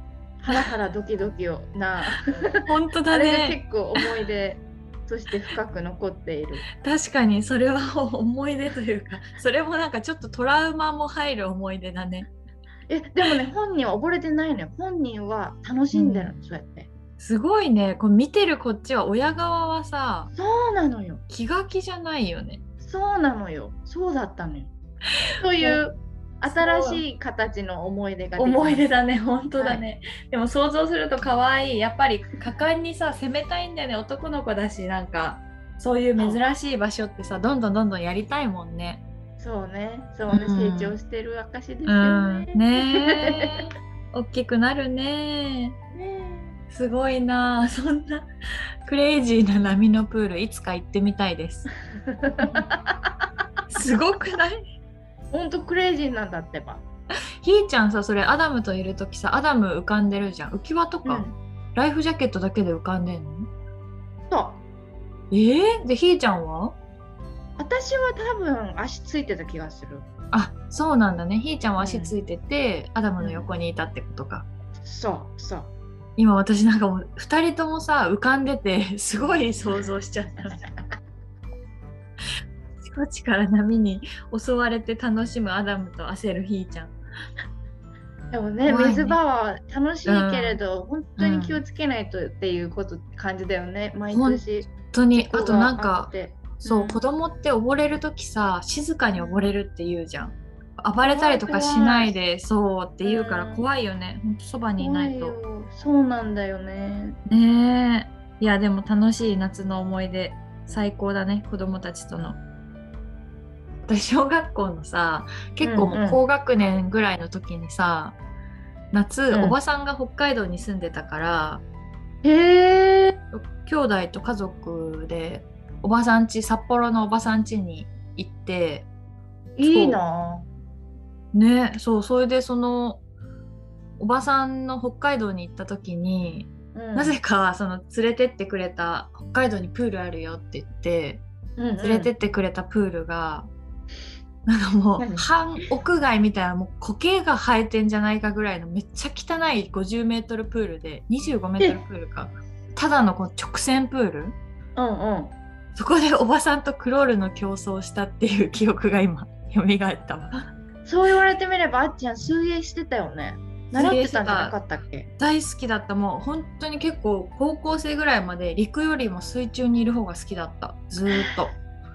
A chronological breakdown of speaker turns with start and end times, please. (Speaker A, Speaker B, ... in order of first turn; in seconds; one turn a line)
Speaker A: 0.4-6.7
Speaker B: 2.6-4.0
Speaker B: 6.8-12.3
Speaker A: 12.9-16.9
Speaker B: 15.9-16.3
Speaker B: 17.2-20.3
Speaker A: 20.3-21.2
Speaker B: 21.3-22.6
Speaker A: 22.8-24.7
Speaker B: 25.3-25.8
Speaker A: 25.4-28.9
Speaker B: 26.4-27.0
Speaker B: 28.4-39.0
Speaker A: 29.6-29.8
Speaker A: 39.4-43.7
Speaker B: 40.3-41.0
Speaker B: 41.9-45.8
Speaker A: 45.9-46.5
Speaker B: 46.7-48.3
Speaker B: 48.8-51.7
Speaker A: 51.9-53.2
Speaker B: 53.7-54.6
Speaker A: 55.3-56.8
Speaker B: 57.4-63.5
Speaker A: 61.0-61.3
Speaker A: 64.3-64.6
Speaker B: 65.3-66.8
Speaker A: 67.6-70.1
Speaker B: 70.3-74.5
Speaker A: 71.8-72.2
Speaker A: 73.2-73.5
Speaker A: 74.8-75.7
Speaker B: 76.2-80.7
Speaker B: 82.8-86.9
Speaker A: 88.3-97.0
Speaker B: 88.6-89.2
Speaker B: 90.1-90.6
Speaker B: 91.2-91.6
Speaker B: 94.1-105.4
Speaker A: 99.2-99.5
Speaker A: 101.0-102.2
Speaker A: 103.0-103.7
Speaker A: 104.8-107.2
Speaker B: 107.3-112.4
Speaker B: 113.8-118.2
Speaker A: 115.6-116.2
Speaker B: 118.9-121.6
Speaker A: 119.3-119.6
Speaker A: 122.2-123.2
Speaker B: 123.3-128.9
Speaker A: 129.6-130.5
Speaker B: 129.6-130.0
Speaker B: 131.3-133.0
Speaker B: 134.0-141.2
Speaker A: 136.8-137.2
Speaker A: 141.6-142.1
Speaker B: 141.8-143.5
Speaker B: 144.5-154.3
Speaker A: 145.0-145.6
Speaker A: 154.8-155.3
Speaker B: 155.8-160.4
Speaker A: 160.8-165.1
Speaker B: 163.7-164.6
Speaker B: 165.2-171.5